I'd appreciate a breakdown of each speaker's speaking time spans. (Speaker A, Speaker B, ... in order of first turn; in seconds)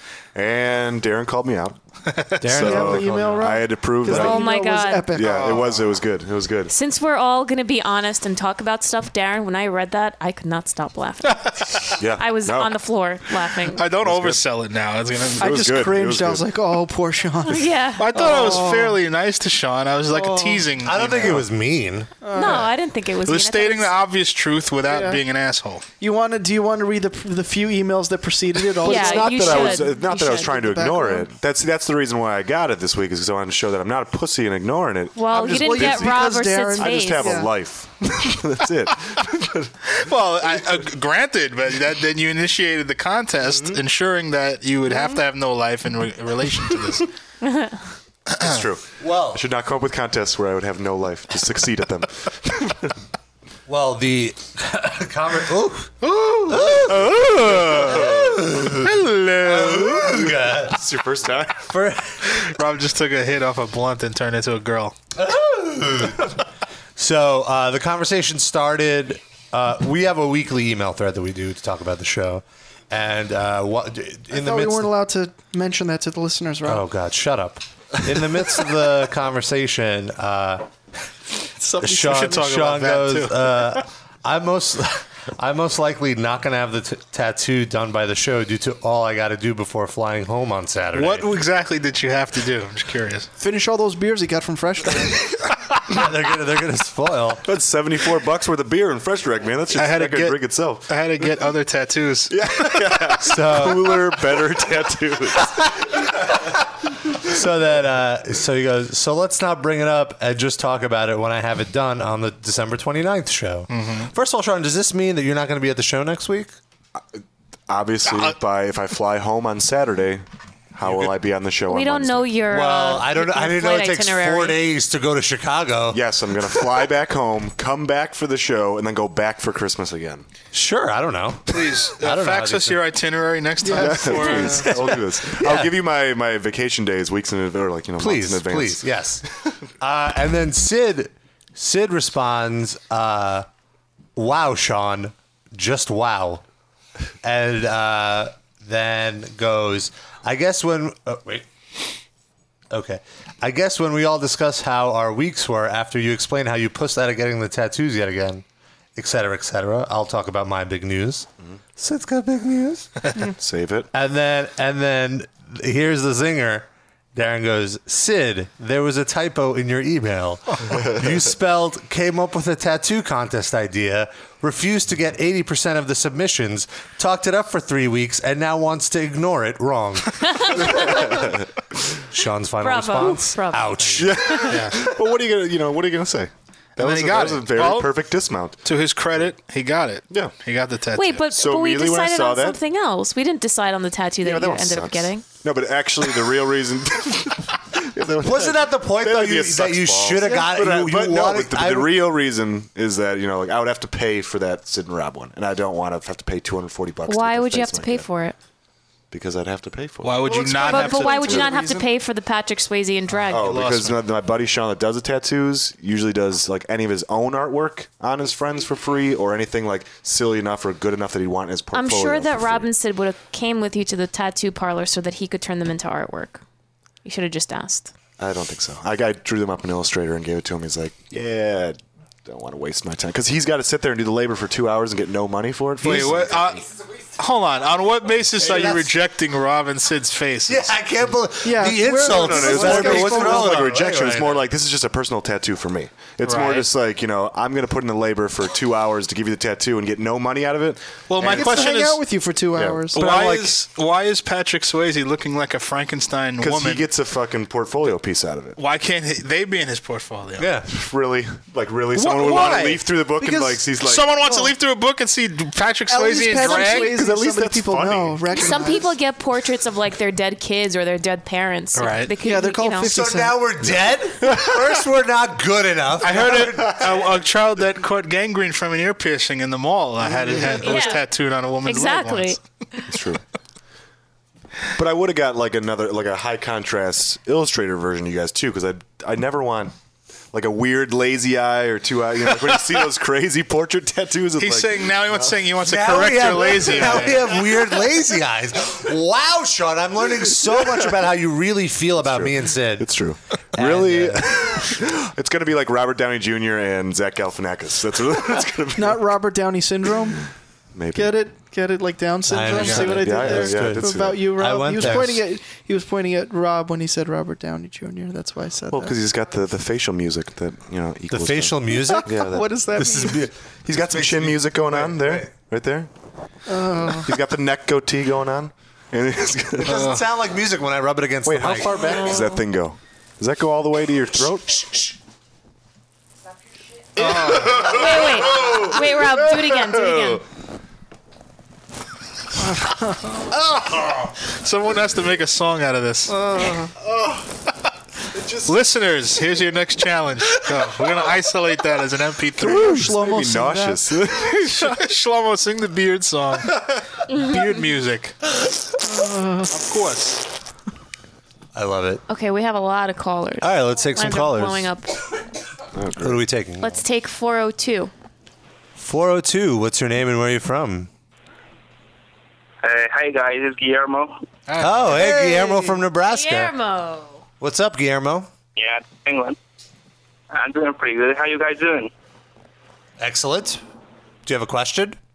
Speaker A: 0.3-1.8, 2.4-4.4, 5.1-6.7, 12.0-12.7, 14.0-14.4, 15.4-16.5, 28.8-36.2, 36.8-39.7, 43.5-43.8, 48.4-52.9, 56.9-58.4, 59.9-61.7, 97.4-100.9, 102.3-105.7, 117.0-122.3, 125.9-130.2, 133.7-138.8, 163.3-163.9, 170.7-171.1, 180.7-181.4, 183.9-188.6, 191.3-192.6, 194.2-208.1, 209.1-211.6, 213.3-222.7, 228.2-236.6, 242.0-251.7, 252.5-253.4, 256.4-258.6, 260.7-264.1, 266.4-268.5, 274.2-274.5, 276.4-276.7, 280.3-280.8, 282.9-283.2, 284.8-289.7, 290.3-295.4, 302.0-309.1, 310.7-311.1, 312.7-314.2, 318.7-322.5, 323.6-325.9, 327.0-329.9, 331.2-334.5, 337.0-337.7, 348.1-348.6, 352.5-354.6, 365.7-366.2
Speaker B: 2.1-2.4, 5.2-5.9, 13.7-15.4, 18.0-21.4, 23.2-25.8, 39.9-47.1, 48.3-48.6, 56.0-57.9, 58.8-60.0, 62.4-64.9, 82.0-83.5, 90.9-93.3, 99.7-102.3, 113.7-114.1, 118.0-118.3, 131.5-134.7, 184.5-184.8, 186.8-188.0, 188.6-191.2, 210.0-211.6, 213.2-214.0, 235.8-236.6, 237.2-240.7, 246.2-246.7, 251.1-252.0, 252.9-256.9, 258.6-260.5, 263.8-266.9, 271.7-272.1, 276.0-282.4, 294.4-297.3, 312.6-312.9, 329.6-330.0, 337.0-337.8, 344.2-346.1, 348.4-352.9, 354.5-358.1, 359.5-360.2, 374.5-375.2
Speaker C: 2.4-3.4, 20.8-22.1, 49.0-49.4, 53.7-55.9, 56.5-60.8, 61.6-62.4, 65.2-66.3, 67.0-74.9, 76.6-80.6, 81.8-91.3, 95.9-97.4, 103.2-104.0, 107.2-116.5, 122.5-126.0, 130.5-132.8, 135.3-135.7, 138.0-139.2, 139.8-143.5, 144.2-146.4, 147.2-151.4, 152.7-158.4, 158.9-162.9, 163.9-180.7, 182.1-184.4, 198.2-201.9, 238.4-238.9, 240.5-244.4, 253.1-253.5, 260.4-260.7, 272.8-276.9, 295.6-302.9, 303.5-304.6, 312.3-315.2, 321.1-323.3, 323.9-325.3, 329.6-332.1, 334.2-334.9, 361.5-362.0, 363.4-364.7, 366.0-366.8, 368.8-370.9, 374.6-376.5, 377.4-378.3, 383.0-383.6, 384.2-385.0
Speaker D: 2.5-5.5, 15.4-19.0, 20.1-20.6, 22.2-22.7, 24.9-25.2, 26.0-31.3, 35.3-37.5, 74.3-76.8, 81.6-82.4, 93.4-95.2, 133.6-134.5, 210.8-211.7, 241.4-243.6, 251.3-253.0, 261.9-263.7, 264.2-264.5, 265.9-268.9, 272.2-273.4, 308.8-310.2, 310.9-318.9, 321.8-323.2, 326.5-327.1, 342.4-343.3, 346.1-346.7, 352.4-354.1, 358.8-359.6
Speaker E: 4.1-5.1, 6.7-13.8, 17.4-18.6, 22.3-23.9, 28.8-30.6, 35.1-37.4, 47.4-47.8, 121.7-124.6, 180.2-181.2, 182.6-184.5, 190.9-195.2, 207.1-208.3, 210.6-213.5, 221.7-226.4, 227.0-227.9, 268.3-272.9, 280.6-281.1, 281.6-282.4, 337.6-340.2, 362.1-364.9, 366.6-367.9, 375.0-377.2
Speaker F: 372.6-374.1, 378.6-379.4, 380.3-381.9